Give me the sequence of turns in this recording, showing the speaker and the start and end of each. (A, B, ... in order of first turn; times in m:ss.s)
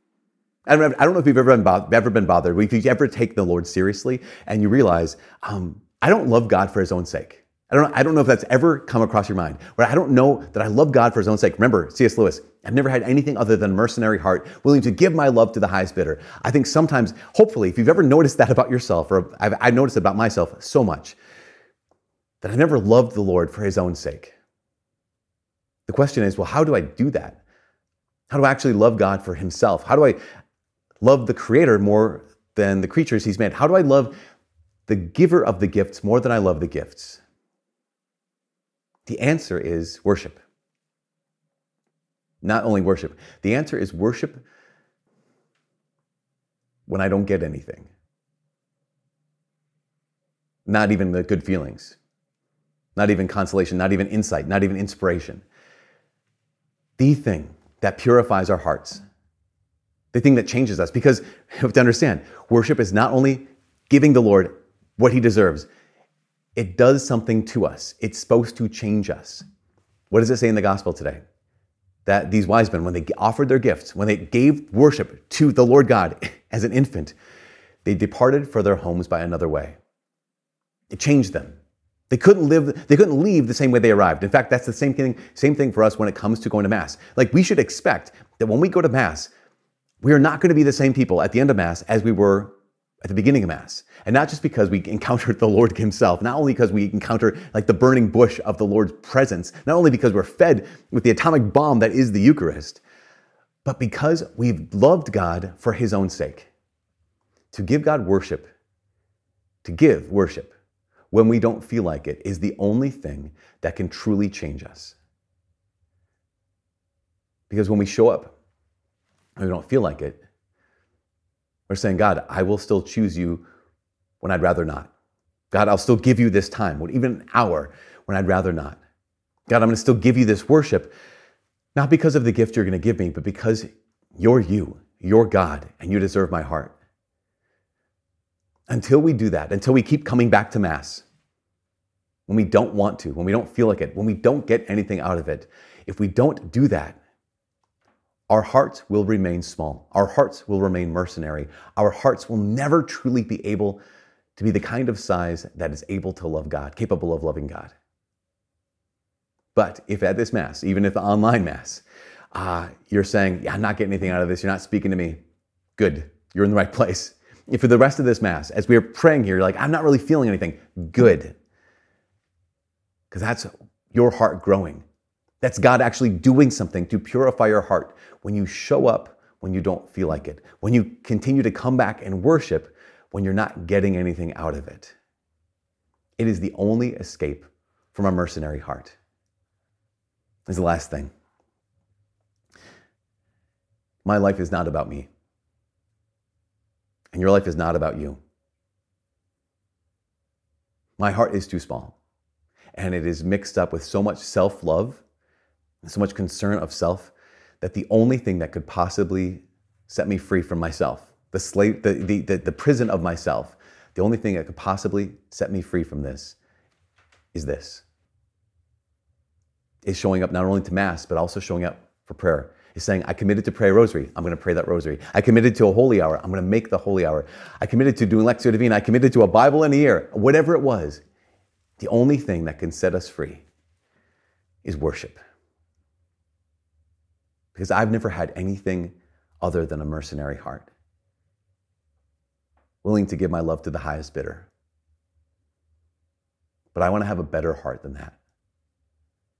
0:00.7-0:21.2 A
0:22.4-0:24.3 A
0:25.9-0:27.4 A
0:28.3-0:30.2 A
0:31.0-0:34.1 A
0:34.9-0:37.2 A
0:39.1-0:40.4 A
0:42.4-0:44.4 A
0:46.9-0:47.9 A
0:50.7-0:52.0 A
0:53.0-0:55.4 A
0:57.0-0:59.0 A
1:00.1-1:05.7 A
1:06.6-1:09.4 A
1:10.1-1:11.2 A
1:12.1-1:17.1 A
1:17.8-1:19.8 A
1:20.9-1:21.6 A
1:22.1-1:29.3 A
1:30.0-1:42.8 A
1:43.6-1:46.5 A
1:47.5-1:48.5 A
1:49.6-1:50.6 A
1:51.1-1:55.0 A
1:57.5-1:58.3 A
1:59.4-2:00.2 A
2:01.7-2:03.4 A
2:04.2-2:04.9 A
2:05.5-2:08.8 A
2:09.5-2:10.9 A
2:11.8-2:16.8 A
2:18.7-2:21.0 A
2:22.3-2:27.0 A
2:28.3-2:33.8 A
2:34.4-2:37.7 A
2:39.6-2:41.8 A
2:42.3-2:45.2 A
2:45.8-2:51.4 A
2:53.1-2:54.8 A
2:55.4-3:05.0 A
3:06.2-3:09.0 A
3:10.5-3:11.1 A
3:14.0-3:15.1 A
3:17.1-3:18.2 A
3:21.0-3:22.0 A
3:22.8-3:25.0 A
3:25.8-3:36.4 A
3:37.3-3:37.8 A
3:39.8-3:51.0 A
3:51.8-3:53.4 A
3:54.6-3:55.2 A
3:57.5-4:00.7 A
4:02.8-4:04.5 A
4:06.7-4:08.2 A